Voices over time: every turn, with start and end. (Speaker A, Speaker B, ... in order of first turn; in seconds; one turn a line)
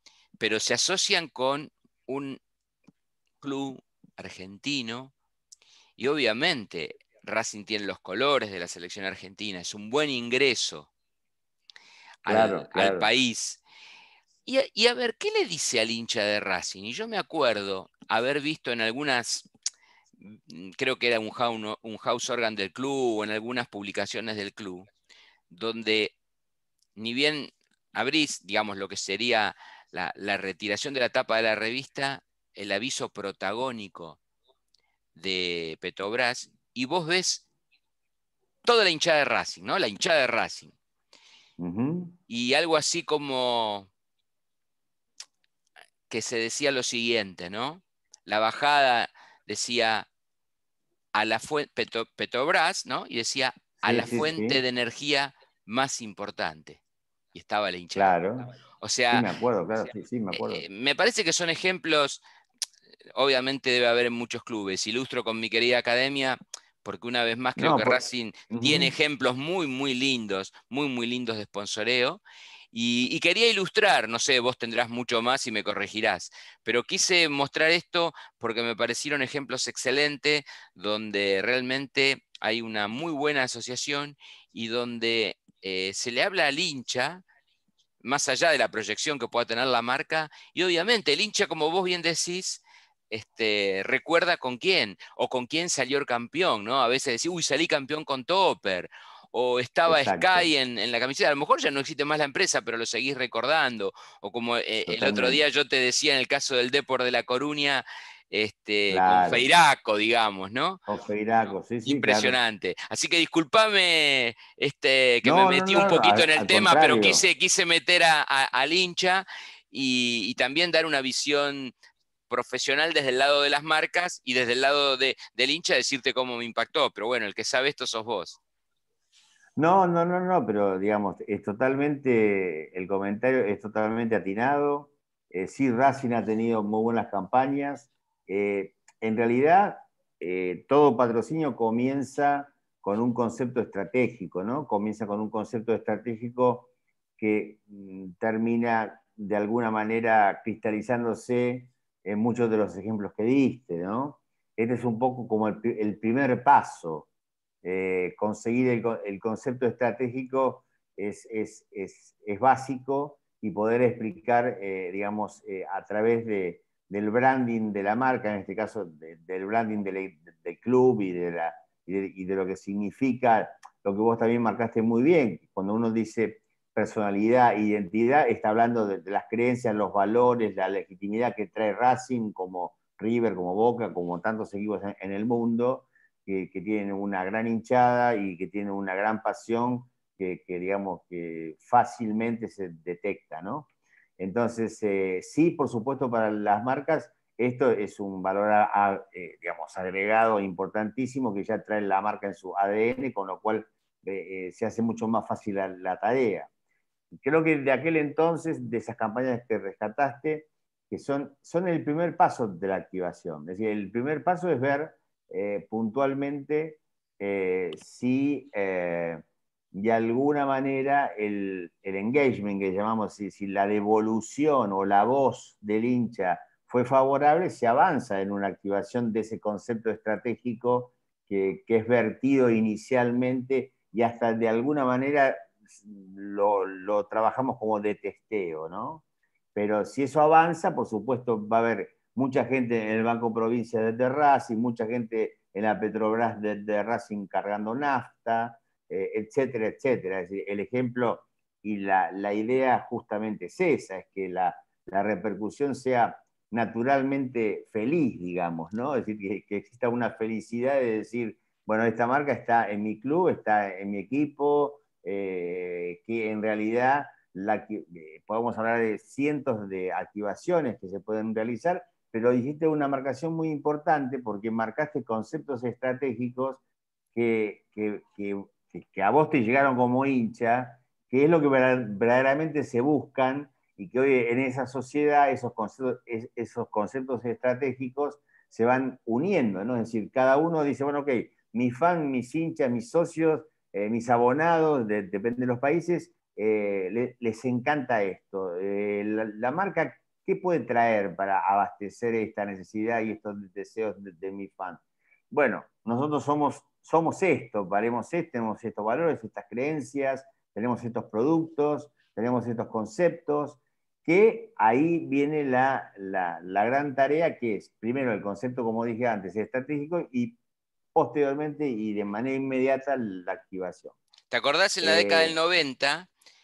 Speaker A: 0.4-2.4
Speaker A: 3.4-5.1
Speaker A: 6.0-10.9
Speaker A: 12.2-13.6
Speaker B: 12.2-13.1
Speaker A: 14.4-19.5
Speaker A: 20.3-24.9
Speaker A: 25.5-26.1
Speaker A: 26.9-34.2
Speaker A: 35.1-37.5
Speaker A: 38.6-40.7
Speaker B: 41.6-42.1
Speaker A: 42.3-43.9
Speaker A: 46.1-50.1
Speaker A: 51.1-56.8
Speaker B: 53.8-54.6
Speaker A: 57.3-58.2
Speaker B: 57.9-58.4
Speaker A: 58.8-59.3
Speaker B: 59.1-60.6
Speaker A: 60.3-62.2
Speaker A: 63.1-72.2
Speaker B: 67.6-68.0
Speaker B: 68.5-68.9
Speaker A: 72.7-87.2
Speaker A: 88.0-110.8
Speaker B: 99.9-100.5
Speaker B: 104.9-105.4
Speaker B: 108.9-109.4
Speaker B: 110.9-112.3
Speaker A: 111.8-121.7
Speaker B: 115.2-117.2
Speaker A: 122.3-128.4
Speaker B: 129.6-157.1
Speaker B: 157.6-206.5
Speaker B: 207.2-239.0
Speaker B: 239.5-276.6
Speaker B: 277.1-320.4
Speaker B: 320.9-323.9
Speaker A: 324.3-326.1
Speaker B: 324.8-325.4